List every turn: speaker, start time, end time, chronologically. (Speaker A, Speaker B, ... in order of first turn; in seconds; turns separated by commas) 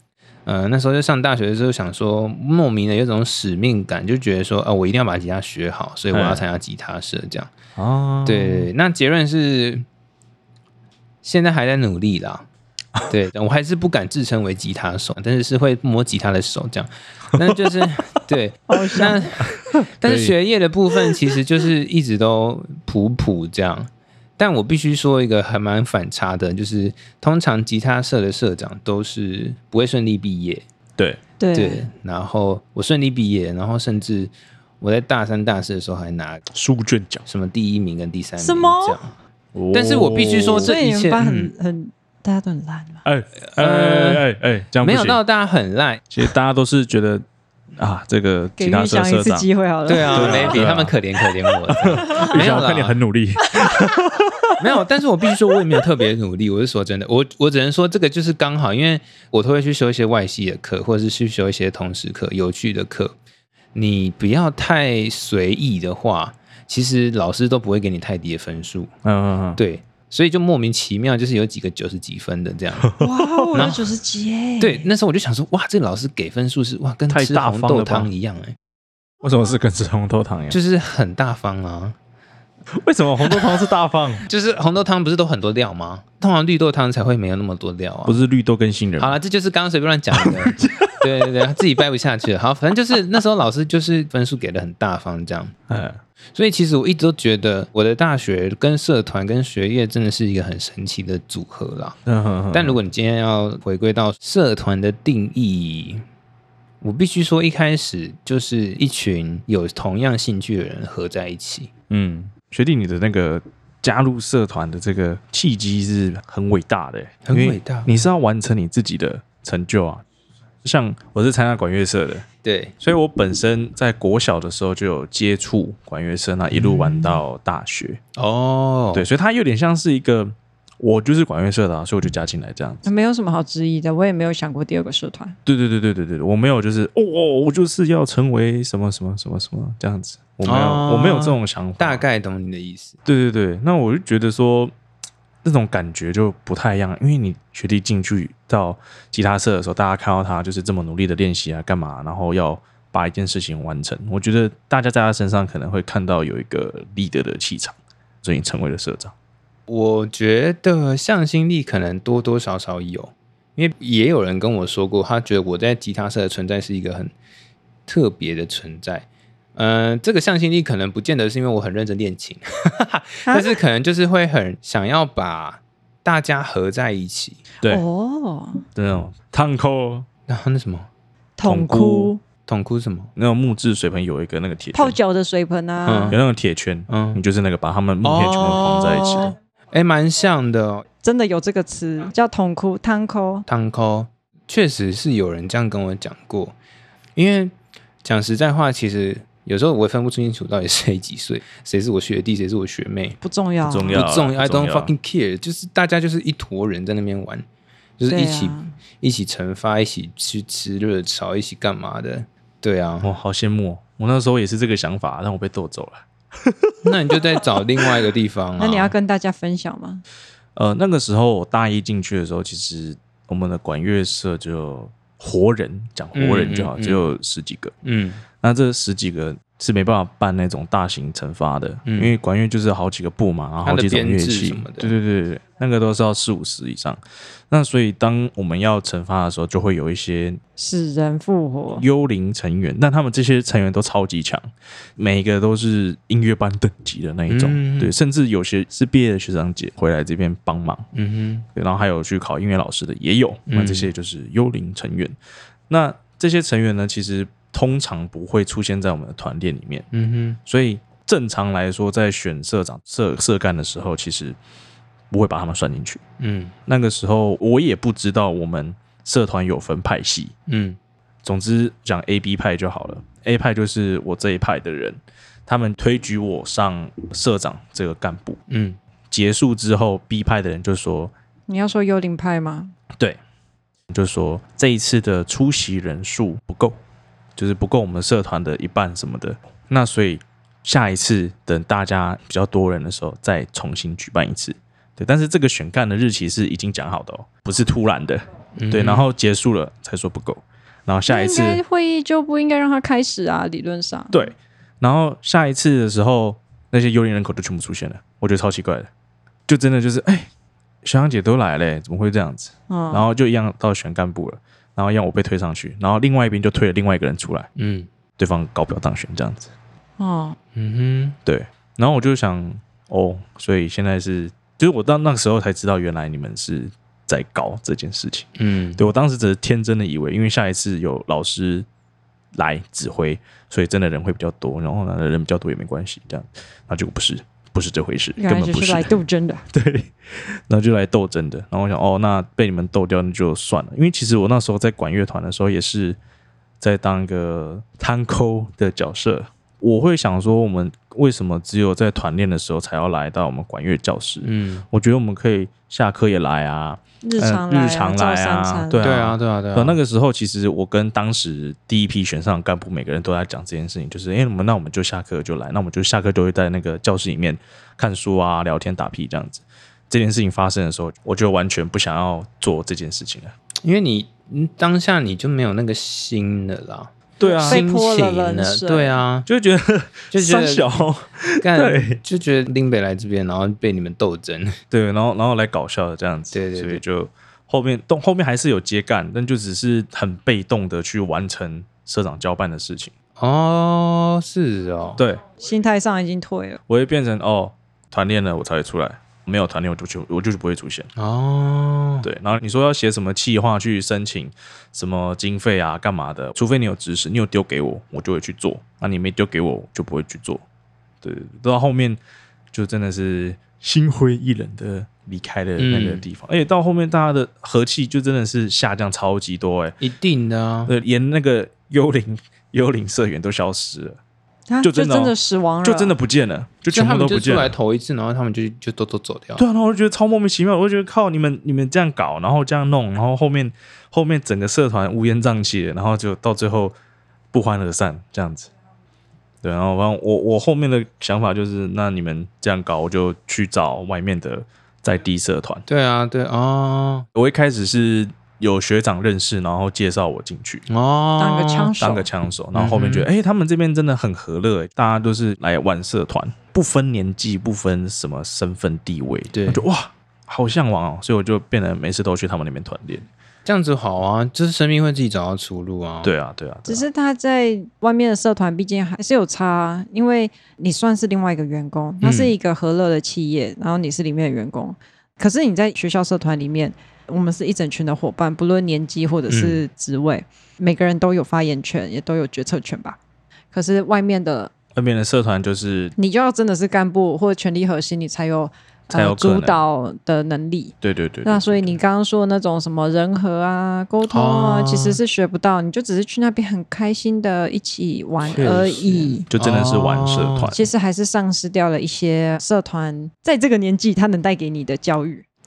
Speaker A: 0.5-7.5, Speaker B: 6.1-6.4, Speaker B: 7.8-8.7, Speaker A: 8.2-9.9, Speaker A: 11.2-12.5, Speaker A: 13.1-30.6, Speaker B: 17.4-17.7, Speaker C: 18.7-19.2, Speaker B: 20.0-20.3, Speaker C: 31.4-31.9, Speaker A: 31.5-36.5, Speaker B: 36.5-37.2, Speaker A: 37.2-39.1, Speaker C: 38.4-39.0, Speaker B: 39.5-40.7, Speaker A: 39.7-41.5, Speaker C: 40.6-43.0, Speaker B: 43.0-45.2, Speaker A: 43.4-44.3, Speaker A: 44.8-46.0, Speaker B: 46.1-47.2, Speaker B: 47.8-49.5, Speaker C: 48.6-50.6, Speaker A: 49.9-53.0, Speaker B: 50.0-50.9, Speaker B: 51.7-54.6, Speaker C: 52.1-52.4, Speaker A: 54.6-63.1, Speaker A: 63.8-68.9, Speaker B: 69.0-69.6, Speaker A: 69.6-73.0, Speaker B: 72.8-73.7, Speaker C: 73.0-74.9, Speaker A: 73.5-73.9, Speaker A: 74.6-78.5, Speaker B: 77.1-78.1, Speaker B: 79.2-80.6, Speaker A: 80.5-82.0, Speaker B: 82.7-84.3, Speaker A: 84.3-88.2, Speaker B: 88.1-89.2, Speaker A: 89.0-95.6, Speaker B: 90.1-91.3, Speaker B: 95.7-96.0, Speaker A: 96.3-102.0, Speaker B: 102.1-102.8, Speaker A: 102.5-106.0, Speaker A: 106.8-111.7, Speaker B: 111.9-120.0, Speaker A: 117.3-118.0, Speaker B: 120.6-122.3, Speaker A: 122.4-122.7, Speaker B: 122.8-128.0, Speaker A: 126.5-127.2, Speaker A: 128.2-129.1, Speaker B: 128.9-132.8, Speaker C: 132.8-135.4, Speaker B: 135.5-142.0, Speaker A: 140.4-143.0, Speaker B: 143.1-144.7, Speaker B: 145.4-159.1, Speaker A: 159.7-167.1, Speaker A: 167.9-177.4, Speaker C: 173.3-173.6, Speaker C: 177.6-178.7, Speaker B: 178.8-180.1, Speaker A: 180.3-180.9, Speaker C: 181.4-182.2, Speaker B: 181.4-182.1, Speaker A: 182.4-183.1, Speaker B: 183.2-185.0, Speaker C: 184.7-186.2, Speaker A: 185.8-186.2, Speaker B: 186.1-189.3, Speaker A: 186.9-187.2, Speaker A: 188.0-190.8, Speaker C: 191.0-193.5, Speaker A: 193.5-196.6, Speaker A: 197.2-197.5, Speaker A: 198.0-203.2, Speaker C: 203.2-204.0, Speaker B: 203.6-204.9, Speaker A: 203.9-207.4, Speaker A: 208.0-213.1, Speaker C: 208.1-208.7, Speaker B: 213.0-217.4, Speaker A: 216.8-218.9, Speaker C: 218.6-220.0, Speaker B: 220.6-227.7, Speaker A: 226.2-227.0, Speaker A: 227.8-228.2, Speaker B: 228.4-240.4, Speaker A: 231.8-232.1, Speaker A: 233.6-234.9, Speaker C: 240.6-241.8, Speaker B: 241.7-250.9, Speaker A: 247.3-247.9, Speaker A: 250.9-251.5, Speaker B: 251.5-255.2, Speaker A: 253.5-253.9, Speaker B: 255.7-259.9, Speaker A: 259.9-260.4, Speaker B: 260.4-264.4, Speaker B: 265.1-266.0, Speaker A: 266.2-266.5, Speaker B: 266.7-270.3, Speaker A: 270.5-270.8, Speaker B: 271.2-278.4, Speaker A: 278.5-278.8, Speaker B: 279.1-281.1, Speaker C: 281.5-282.7, Speaker B: 283.9-286.8, Speaker B: 287.4-301.6, Speaker A: 298.6-299.1, Speaker C: 301.1-304.3, Speaker B: 304.1-308.9, Speaker B: 309.5-310.3, Speaker B: 310.8-317.5, Speaker C: 312.7-313.1, Speaker A: 317.6-317.9, Speaker B: 318.2-319.5, Speaker C: 320.0-320.4, Speaker A: 320.6-321.2, Speaker B: 321.3-331.7, Speaker A: 328.4-328.9, Speaker B: 332.3-339.0, Speaker C: 338.2-339.4, Speaker B: 339.5-346.0, Speaker B: 346.6-373.3, Speaker A: 354.2-354.6, Speaker C: 357.0-359.0, Speaker A: 358.8-359.8, Speaker A: 373.6-376.9, Speaker B: 377.2-377.6, Speaker C: 377.2-379.0, Speaker A: 377.4-379.3, Speaker B: 379.3-382.0, Speaker A: 380.1-380.9, Speaker A: 381.4-384.6, Speaker B: 384.7-392.9, Speaker A: 386.3-386.8, Speaker A: 393.2-395.0, Speaker B: 395.0-395.2, Speaker C: 395.4-396.6, Speaker B: 396.7-400.9, Speaker A: 401.0-402.1, Speaker B: 402.0-410.4, Speaker B: 411.0-412.0, Speaker B: 412.5-419.8, Speaker A: 415.6-416.1, Speaker A: 419.8-420.7, Speaker B: 420.7-424.0, Speaker C: 424.5-425.9, Speaker B: 424.6-427.6, Speaker A: 426.7-429.4, Speaker B: 429.4-436.8, Speaker B: 437.3-438.5, Speaker B: 439.4-445.6, Speaker A: 445.7-447.1, Speaker B: 447.1-450.6, Speaker A: 450.7-451.7, Speaker C: 451.2-452.1, Speaker B: 451.8-463.1, Speaker A: 452.6-453.1, Speaker A: 459.3-459.7, Speaker A: 463.5-466.1, Speaker B: 466.0-466.9, Speaker C: 466.7-483.0, Speaker A: 472.0-472.3, Speaker A: 479.3-479.6, Speaker C: 483.5-484.5, Speaker B: 484.8-485.9, Speaker C: 486.0-499.3, Speaker B: 488.9-489.6, Speaker B: 490.8-491.8, Speaker A: 494.1-495.0, Speaker B: 498.2-500.6, Speaker A: 498.3-498.7, Speaker A: 499.4-500.5, Speaker C: 500.5-505.2